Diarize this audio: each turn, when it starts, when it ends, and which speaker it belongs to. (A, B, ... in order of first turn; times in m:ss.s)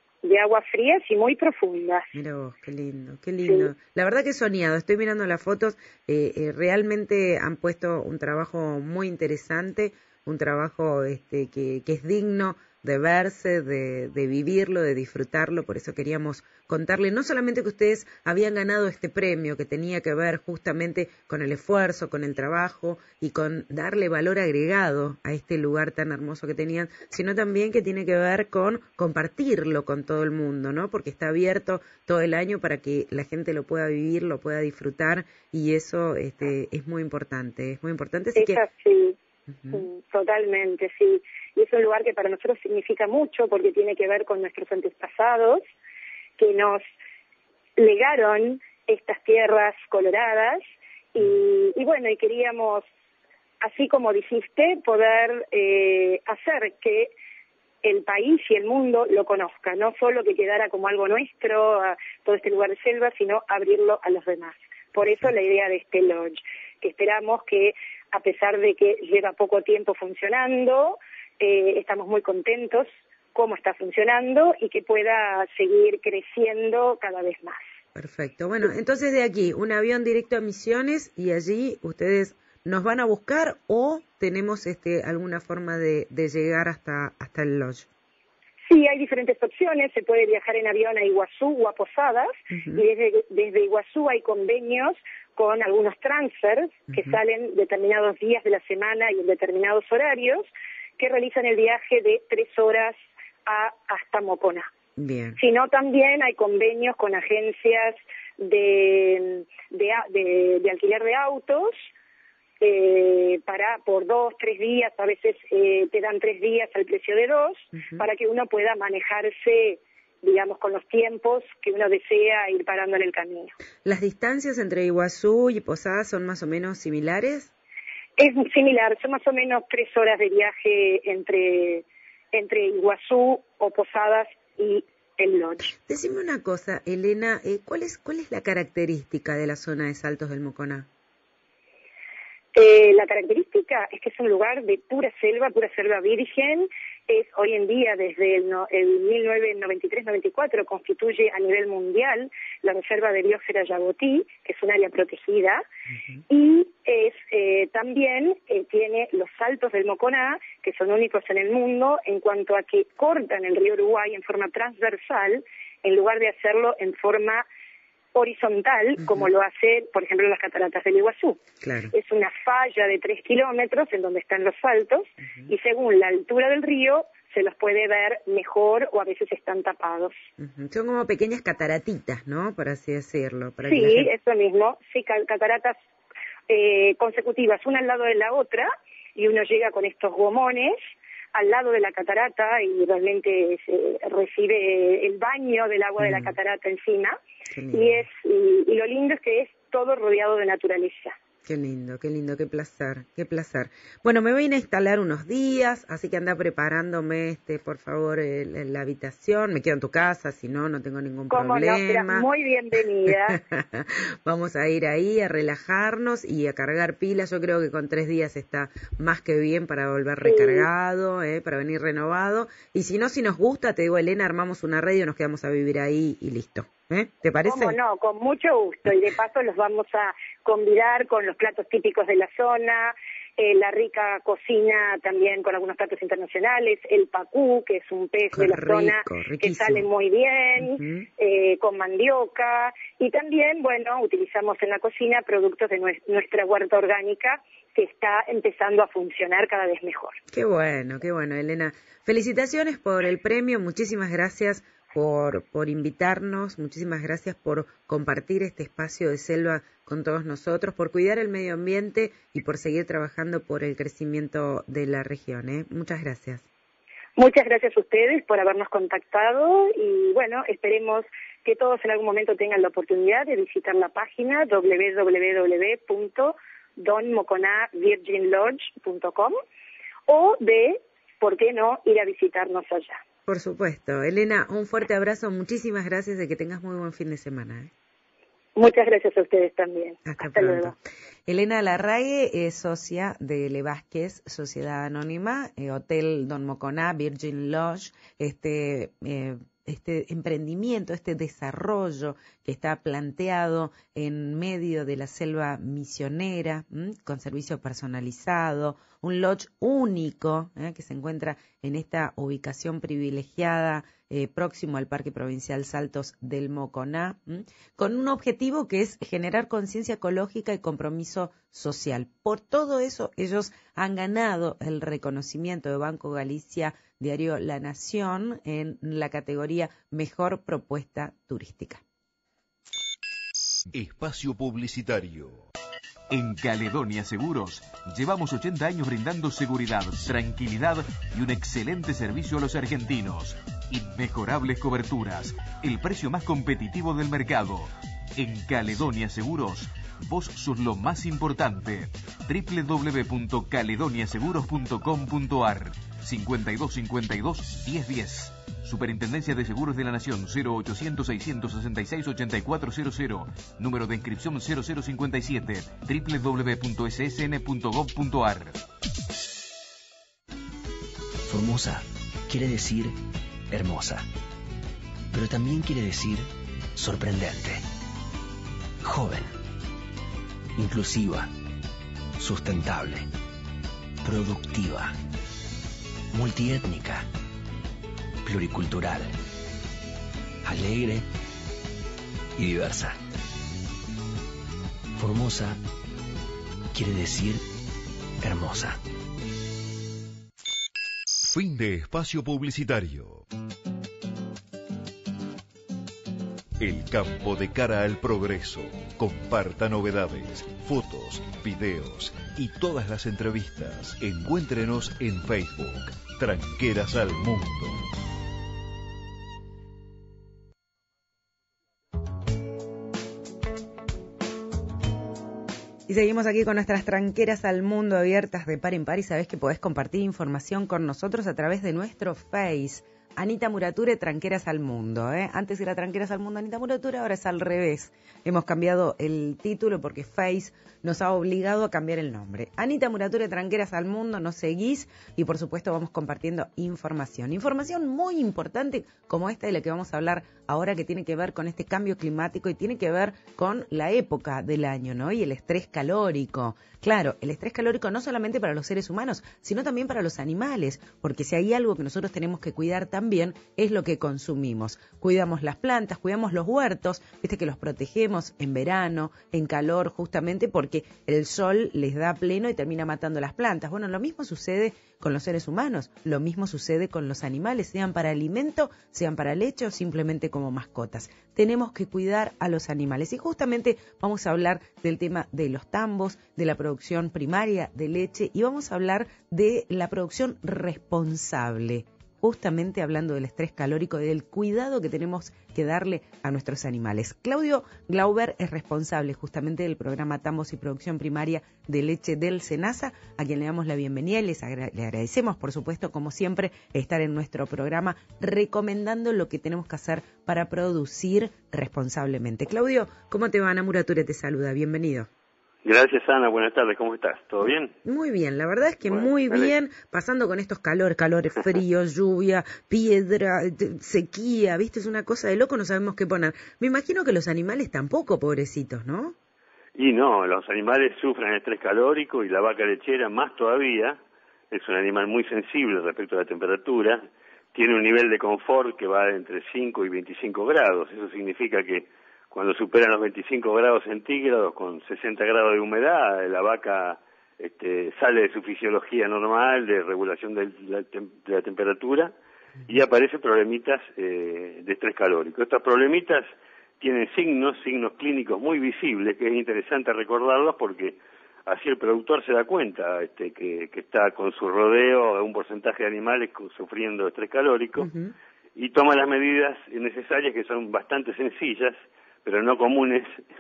0:00.2-0:02.1 A
0:02.1-0:38.6 B
0:03.4-0:03.7 A
0:38.3-0:39.2 A
0:39.5-0:39.8 B
0:39.7-0:45.6 A
0:46.4-0:46.8 A
0:47.8-0:50.6 A
0:51.1-0:52.8 A
0:53.6-0:57.1 A
0:57.8-1:17.6 A
1:17.9-1:27.9 B
1:28.7-1:44.7 A
1:32.5-1:32.8 B
1:36.9-1:37.2 B
1:45.0-1:45.4 B
1:45.4-1:51.8 A
1:52.6-2:03.5 A
1:57.7-1:58.0 B
2:03.8-2:07.5 B
2:08.2-2:15.7 A
2:15.8-2:20.9 B
2:22.5-2:35.6 A
2:35.9-2:36.2 B
2:36.3-2:47.4 A
2:48.1-2:51.4 A
2:51.6-2:51.9 B
2:51.9-3:00.1 A
3:00.4-3:04.1 B
3:03.6-3:05.8 A
3:06.5-3:10.8 A
3:11.3-3:17.2 A
3:16.0-3:16.3 B
3:17.5-3:18.0 B
3:17.7-3:21.2 A
3:21.4-3:32.3 B
3:31.3-3:33.4 A
3:33.0-3:47.8 B
3:40.2-3:40.7 A
3:47.4-4:10.2 A
3:58.3-3:59.9 B
4:00.6-4:01.1 B
4:10.3-4:26.4 B
4:27.2-4:39.4 A
4:40.1-4:43.0 A
4:43.3-4:47.7 B
4:48.6-4:50.7 A
4:50.0-5:31.8 B
5:33.7-5:35.4 C
5:36.1-6:08.6 D
6:11.2-6:13.0 E
6:13.5-6:14.1 E
6:15.1-6:17.6 E
6:18.8-6:19.4 E
6:20.6-6:21.3 E
6:22.2-6:23.1 E
6:24.0-6:24.9 E
6:26.1-6:27.1 E
6:28.2-6:29.1 E
6:30.4-6:31.1 E
6:32.4-6:33.0 E
6:34.9-6:35.6 E
6:36.7-6:37.4 E
6:38.2-6:38.8 E
6:41.2-6:43.2 C
6:46.6-6:57.8 C
7:05.9-8:35.1 B
8:35.6-8:37.7 F
8:37.8-8:49.2 B
8:38.9-8:39.5 F
8:49.8-8:54.0 F
8:54.5-9:12.1 F
9:12.7-9:16.2 F
9:16.8-9:27.9 F
9:27.8-9:28.1 B
9:28.6-9:33.2 F